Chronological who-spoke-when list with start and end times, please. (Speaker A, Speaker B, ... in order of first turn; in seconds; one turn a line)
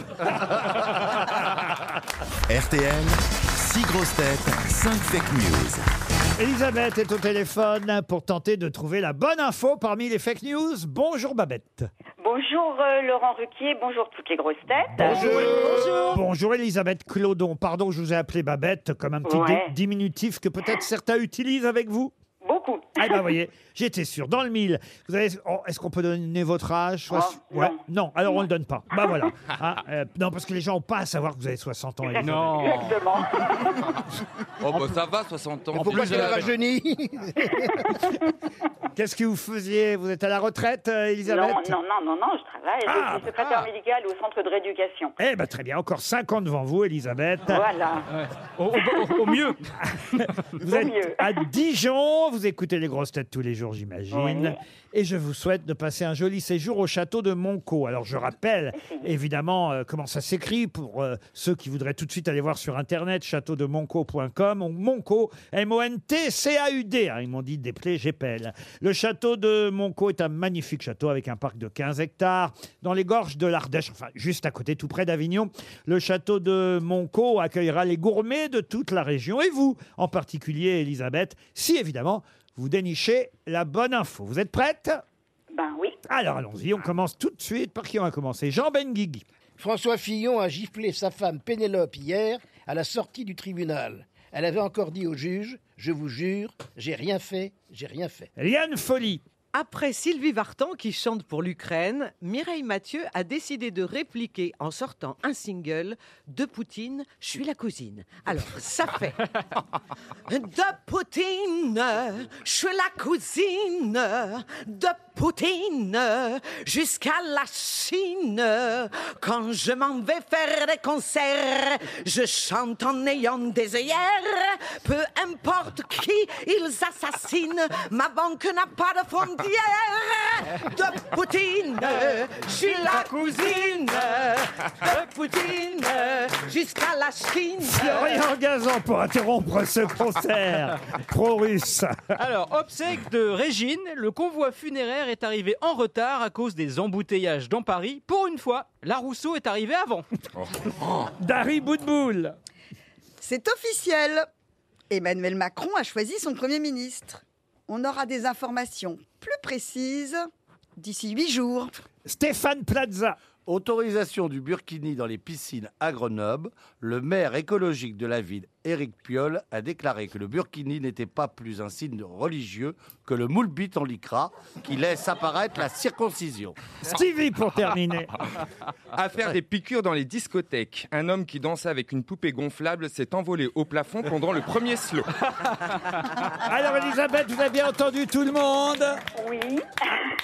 Speaker A: 0.2-1.2
Speaker B: 2.5-5.9
Speaker C: 6.4-11.9
Speaker D: 12.2-15.1
Speaker C: 14.9-22.1
Speaker A: 15.0-16.2
Speaker E: 15.0-16.0
Speaker D: 19.3-19.7
Speaker D: 22.4-23.2
Speaker C: 23.0-32.9
Speaker D: 27.1-27.8
Speaker D: 32.2-33.9
Speaker F: 32.2-33.2
Speaker G: 34.6-36.5
Speaker E: 35.7-38.1
Speaker C: 38.9-41.8
Speaker D: 41.3-45.1
Speaker C: 42.9-43.7
Speaker C: 45.2-47.7
Speaker D: 47.5-48.0
Speaker F: 48.1-50.2
Speaker C: 50.2-85.0
Speaker D: 50.6-51.4
Speaker D: 54.1-54.5
Speaker D: 58.8-59.1
Speaker D: 85.5-86.0
Speaker C: 86.1-89.2
Speaker E: 89.6-98.3
Speaker C: 98.4-99.2
Speaker H: 99.5-109.2
Speaker H: 110.3-138.2
Speaker F: 132.6-133.8
Speaker C: 137.6-142.2
Speaker F: 142.2-150.1
Speaker G: 150.4-151.1
Speaker C: 151.2-152.3
Speaker I: 153.2-154.2
Speaker I: 154.9-161.7
Speaker C: 162.0-163.2
Speaker A: 163.4-176.6
Speaker C: 176.8-178.1
Speaker G: 178.9-185.1
Speaker C: 186.4-189.0
Speaker D: 189.1-190.0